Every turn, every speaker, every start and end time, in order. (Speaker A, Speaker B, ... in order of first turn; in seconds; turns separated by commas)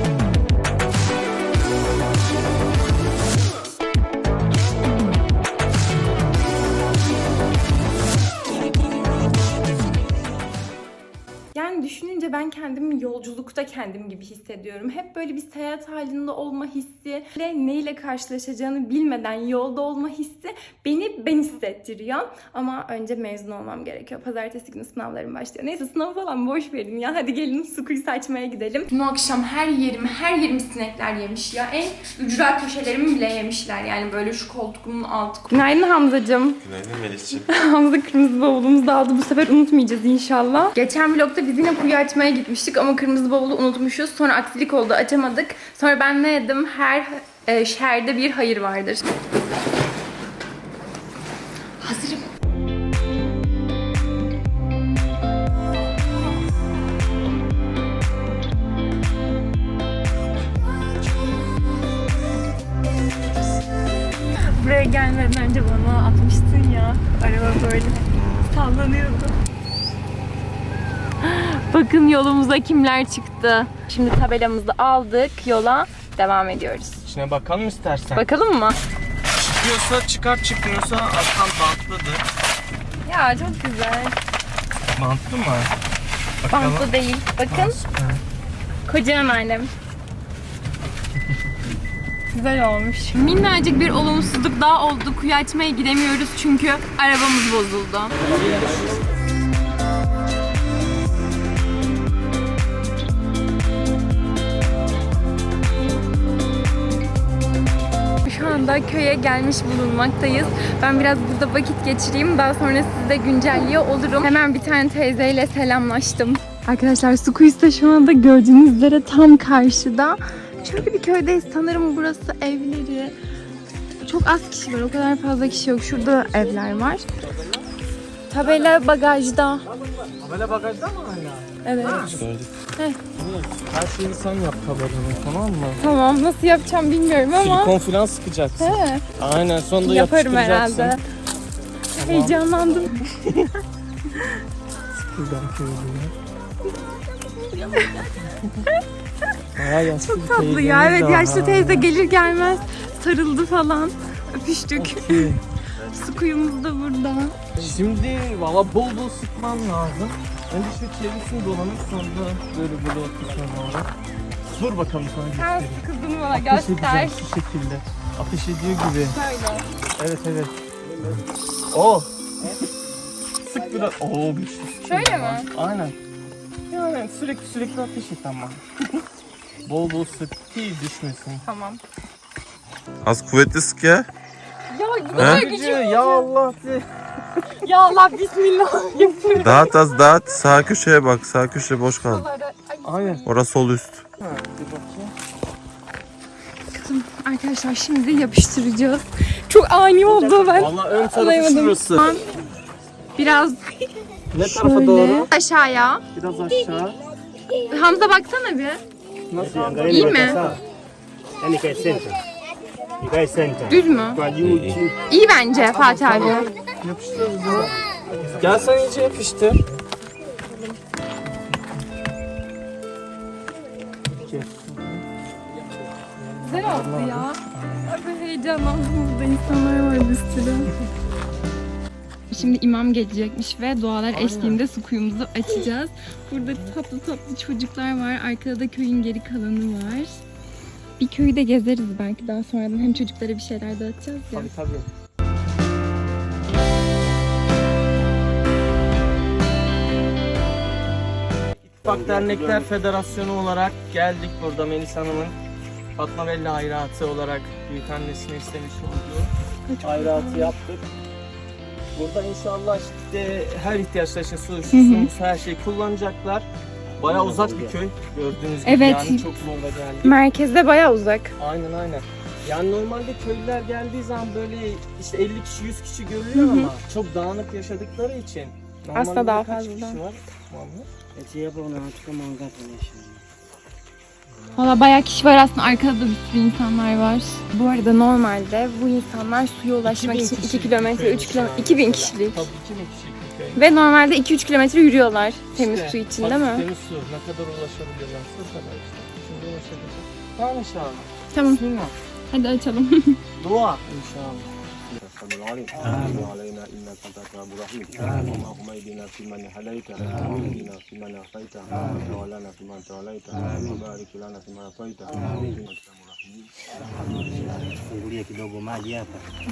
Speaker A: 11.5-36.6, Speaker B: 36.6-37.5, Speaker A: 37.3-49.1, Speaker A: 51.8-52.3, Speaker A: 64.4-69.3, Speaker A: 71.2-77.0, Speaker C: 77.0-78.2, Speaker A: 78.1-78.8, Speaker C: 79.4-82.2, Speaker A: 83.0-84.2, Speaker C: 84.9-85.7, Speaker C: 86.4-86.9, Speaker A: 86.5-87.8, Speaker C: 87.5-88.2, Speaker A: 88.8-89.7, Speaker A: 92.3-98.2, Speaker C: 98.2-98.8, Speaker A: 108.2-123.2, Speaker A: 124.0-127.0, Speaker A: 128.3-129.7, Speaker C: 130.0-132.2, Speaker A: 131.6-132.2, Speaker B: 132.1-132.5, Speaker C: 133.2-135.8, Speaker A: 135.8-137.7, Speaker C: 137.3-141.0, Speaker A: 138.6-139.0, Speaker A: 139.8-141.0, Speaker A: 141.9-143.1, Speaker C: 142.0-142.4, Speaker A: 144.1-144.4, Speaker C: 144.9-146.1, Speaker A: 146.7-149.3, Speaker C: 149.6-151.9, Speaker A: 150.0-157.3, Speaker C: 154.7-155.4, Speaker C: 157.6-163.9, Speaker C: 164.5-169.2, Speaker A: 165.3-167.2, Speaker A: 169.1-169.6, Speaker C: 170.0-170.6, Speaker C: 171.7-172.1, Speaker C: 173.4-175.9, Speaker A: 174.8-175.5, Speaker C: 176.7-179.0, Speaker C: 179.6-181.4, Speaker A: 181.4-181.8, Speaker B: 183.0-184.1, Speaker A: 184.7-186.3, Speaker C: 185.1-186.8, Speaker B: 185.2-185.4, Speaker A: 187.6-189.8, Speaker B: 189.3-192.2, Speaker A: 192.0-193.4, Speaker C: 192.8-193.2, Speaker B: 193.3-194.0, Speaker C: 194.2-195.1, Speaker A: 196.7-202.2, Speaker D: 200.2-200.5, Speaker C: 200.5-202.1, Speaker A: 203.2-203.7, Speaker C: 204.3-205.3, Speaker A: 204.4-206.0, Speaker C: 206.1-207.0, Speaker A: 207.7-208.8, Speaker C: 209.3-210.6, Speaker D: 209.4-210.6, Speaker A: 209.9-210.4, Speaker D: 211.4-212.2, Speaker D: 213.0-214.9, Speaker A: 213.7-214.2, Speaker B: 214.4-214.8, Speaker A: 215.1-216.5, Speaker C: 215.5-219.6, Speaker C: 224.1-225.0, Speaker C: 226.2-227.9, Speaker A: 226.4-230.7, Speaker A: 232.3-240.2, Speaker C: 234.1-234.6, Speaker A: 241.0-244.5, Speaker C: 244.3-244.9, Speaker C: 251.7-255.3, Speaker D: 251.8-252.6, Speaker C: 256.0-259.3, Speaker A: 259.7-260.5, Speaker C: 259.8-260.8, Speaker C: 261.9-266.5, Speaker A: 264.7-265.1, Speaker D: 267.0-267.7, Speaker C: 267.0-270.1, Speaker A: 268.6-269.2, Speaker A: 270.0-271.3, Speaker C: 271.4-280.9, Speaker A: 276.3-276.7, Speaker A: 278.9-280.0, Speaker D: 281.1-283.2, Speaker A: 284.5-292.4, Speaker C: 289.8-293.6, Speaker A: 293.6-296.7, Speaker C: 295.5-301.9, Speaker A: 301.3-301.6, Speaker A: 302.3-303.2, Speaker C: 303.4-304.5, Speaker E: 304.9-316.5, Speaker D: 310.2-310.6, Speaker D: 313.5-313.8, Speaker D: 315.2-315.6, Speaker D: 317.7-319.2